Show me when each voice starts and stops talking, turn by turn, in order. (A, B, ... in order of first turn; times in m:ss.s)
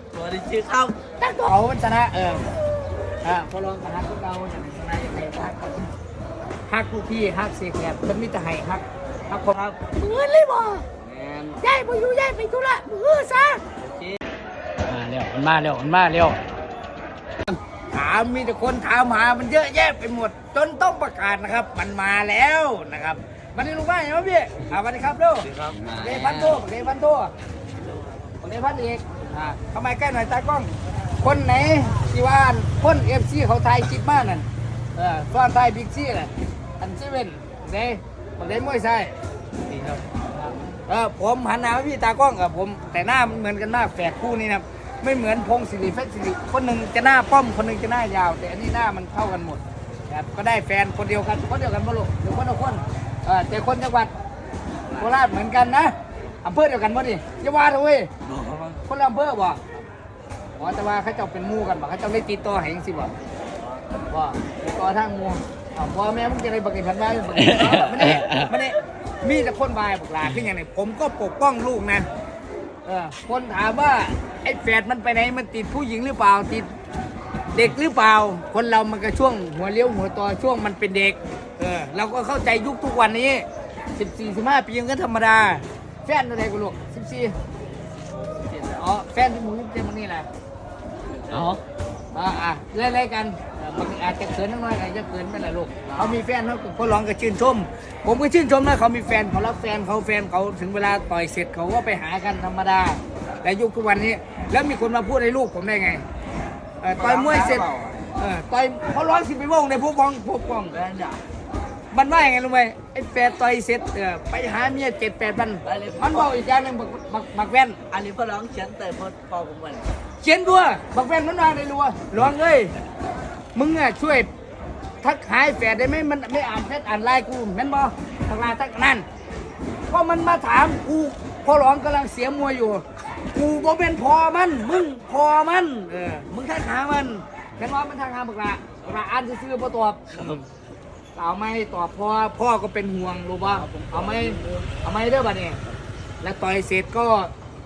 0:00.1-0:01.0 A
0:01.4-0:02.5 B
0:03.2-0:05.9 B
0:06.7-0:09.5 B
0:09.5-0:09.8 A
0:09.9-0:10.8 C
0:11.0-0:11.6 A
0:11.6-0:13.6 C
0:13.8-0:14.2 A
0:14.9-0:16.4 B
0:17.9-0:27.3 B
0:25.4-0:26.6 A
0:27.8-0:28.2 A
0:28.4-0:39.1 B
0:39.7-0:40.0 A
0:40.3-0:54.1 B
0:54.8-0:55.1 A
0:55.0-0:58.1 B
0:58.3-0:58.8 A
0:58.8-0:59.6 B
1:00.6-1:03.1 B
1:04.1-1:12.1 B
1:12.8-1:16.7 B
1:17.5-1:27.3 B
1:28.4-1:28.8 A
1:28.6-1:30.3 B
1:31.1-1:31.6 A
1:32.1-1:46.0 B
1:35.8-1:36.2 A
1:46.8-1:50.8 B
1:47.0-1:48.1 A
1:50.7-1:51.2 A
1:51.9-1:57.8 B
1:55.6-1:56.3 A
1:57.9-1:59.9 A
2:00.2-2:02.7 B
2:03.5-2:04.3 B
2:05.0-2:09.0 B
2:09.9-2:20.2 B
2:20.2-2:20.5 A
2:21.1-2:25.6 B
2:23.4-2:24.7 A
2:26.2-2:27.3 B